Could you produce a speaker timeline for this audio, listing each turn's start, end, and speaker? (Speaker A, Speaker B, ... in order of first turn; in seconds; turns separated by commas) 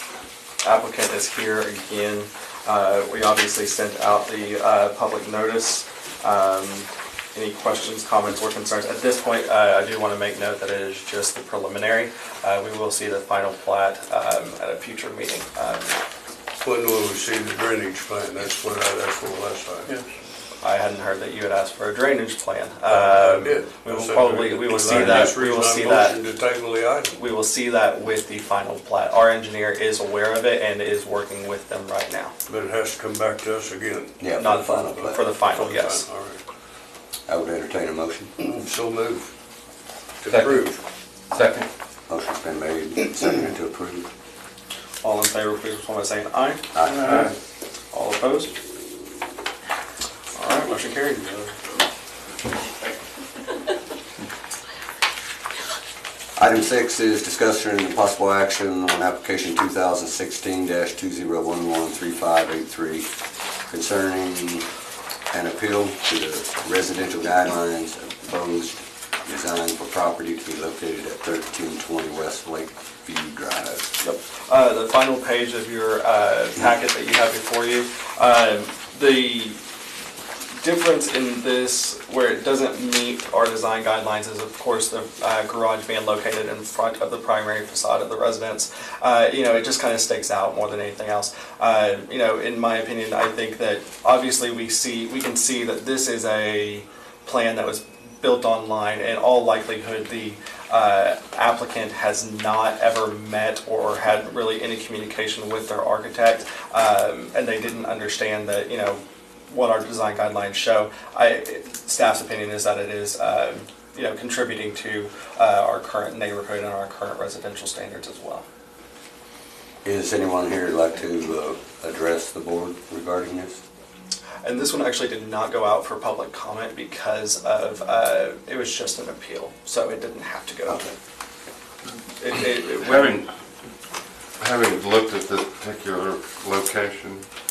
Speaker A: 0.6-16.0, Speaker B: 16.6-19.9, Speaker A: 20.6-26.2, Speaker B: 22.9-27.2, Speaker A: 27.2-32.3, Speaker B: 32.5-36.4, Speaker C: 34.2-35.2, Speaker A: 34.4-36.1, Speaker C: 37.3-38.3, Speaker B: 38.4-39.3, Speaker B: 40.2-40.8, Speaker D: 40.3-40.7, Speaker D: 41.3-41.7, Speaker C: 42.1-44.1, Speaker A: 45.0-46.6, Speaker C: 46.8-47.3, Speaker A: 47.9-48.5, Speaker A: 50.4-51.5, Speaker C: 56.4-63.1, Speaker C: 63.7-64.7, Speaker C: 65.3-73.9, Speaker A: 74.0-79.6, Speaker A: 80.6-118.5, Speaker C: 119.8-123.6, Speaker A: 124.4-130.9, Speaker A: 132.2-133.1, Speaker D: 132.8-133.3, Speaker D: 134.4-137.2